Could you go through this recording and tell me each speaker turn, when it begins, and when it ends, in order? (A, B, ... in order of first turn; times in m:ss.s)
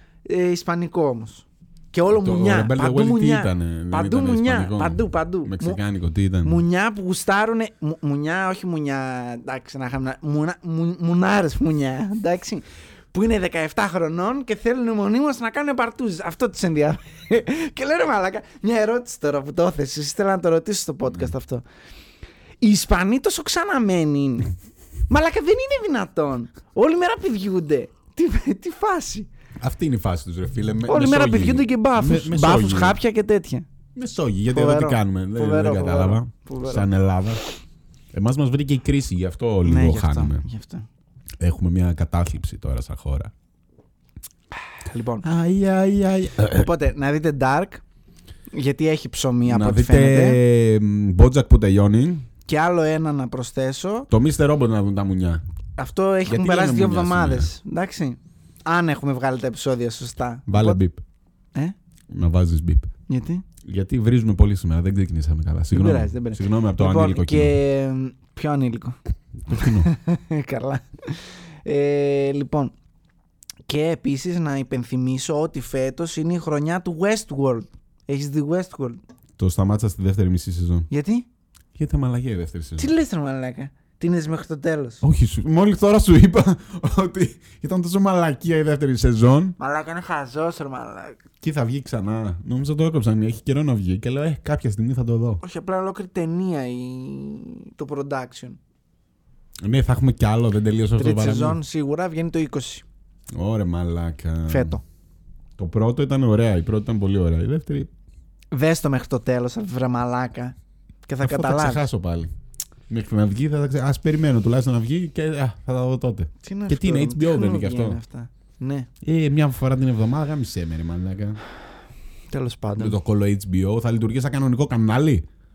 0:00.2-0:05.8 A
0:02.1-0:06.6 B
0:06.4-0:21.6 A
0:22.6-0:24.5 A
0:25.1-0:29.3 A
0:29.6-0:33.0 B
0:30.9-0:33.7 A
0:33.9-0:37.4 B
0:34.5-0:36.9 A
0:38.1-0:40.4 B
0:39.6-0:40.9 A
0:41.4-0:43.3 B
0:44.8-0:45.3 A
0:45.2-0:46.7 B
0:46.5-0:47.8 A
0:48.5-0:50.4 A
0:49.4-0:52.3 B
0:52.5-0:54.1 A
0:54.1-0:55.4 B
0:55.8-1:00.8 A
0:56.2-0:57.5 B
1:00.5-1:01.0 B
1:02.1-1:02.9 B
1:03.1-1:03.4 A
1:03.6-1:07.6 B
1:05.7-1:09.0 A
1:09.4-1:09.9 B
1:09.5-1:12.7 A
1:13.7-1:19.0 A
1:19.4-1:20.9 B
1:20.9-1:21.3 A
1:21.7-1:22.9 B
1:22.8-1:25.0 A
1:25.0-1:29.5 B
1:29.6-1:31.2 A
1:31.4-1:35.4 B
1:35.4-1:38.6 A
1:39.6-1:41.6 B
1:41.0-1:42.8 A
1:43.3-1:44.8 B
1:44.5-1:44.8 A
1:45.6-1:47.9 B
1:48.5-1:50.6 A
1:51.1-1:51.9 A
1:51.2-1:52.3 B
1:52.9-1:58.0 B
1:56.4-1:58.9 A
1:59.0-2:01.4 B
2:02.3-2:03.0 A
2:02.8-2:05.2 B